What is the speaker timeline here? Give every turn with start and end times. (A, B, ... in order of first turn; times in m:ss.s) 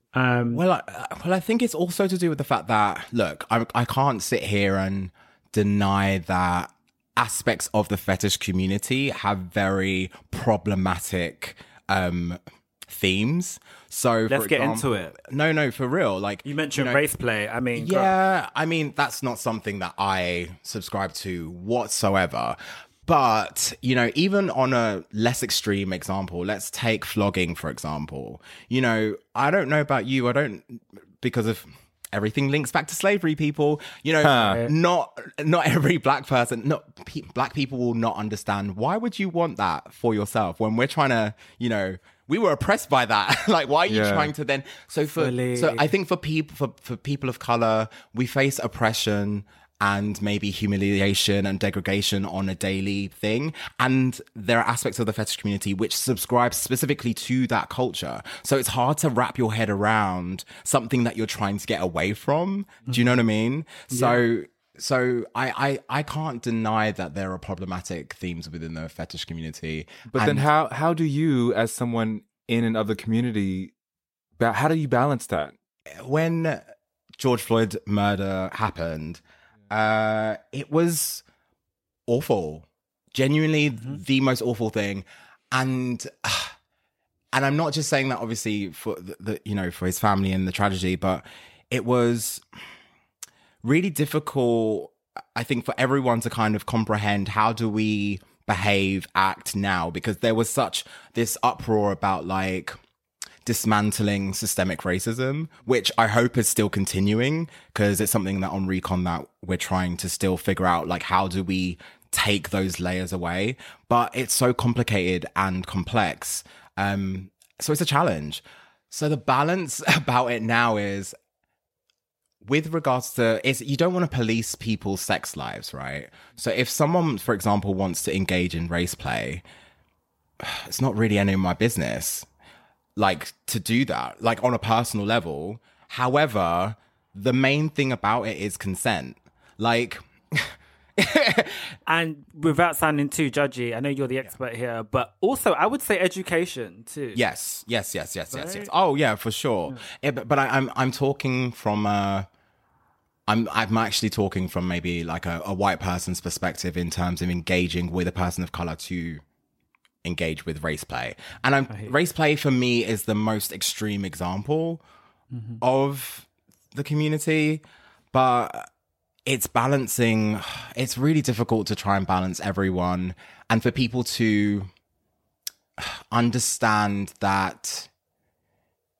0:00.1-0:00.6 A
0:00.5-0:17.0 B
0:14.3-0:15.2 A
0:16.4-0:18.1 A
0:17.8-1:10.5 B
0:34.2-0:34.7 C
0:43.9-0:44.3 C
0:45.1-0:45.9 A
1:03.9-1:04.2 A
1:10.1-1:13.7 C
1:14.4-1:15.6 C
1:15.9-1:16.6 B
1:17.2-1:21.2 B
1:22.1-1:26.6 B
1:27.3-1:32.4 B
1:33.6-1:42.8 B
1:43.4-2:01.1 B
2:02.4-2:09.4 B
2:10.4-2:12.3 B
2:13.0-2:21.7 B
2:21.9-2:27.2 A
2:27.1-2:32.3 B
2:28.3-2:28.7 A
2:33.3-2:39.2 B
2:40.0-2:44.8 B
2:45.3-2:45.6 A
2:45.6-2:48.7 B
2:49.3-2:54.7 B
2:55.8-2:57.9 B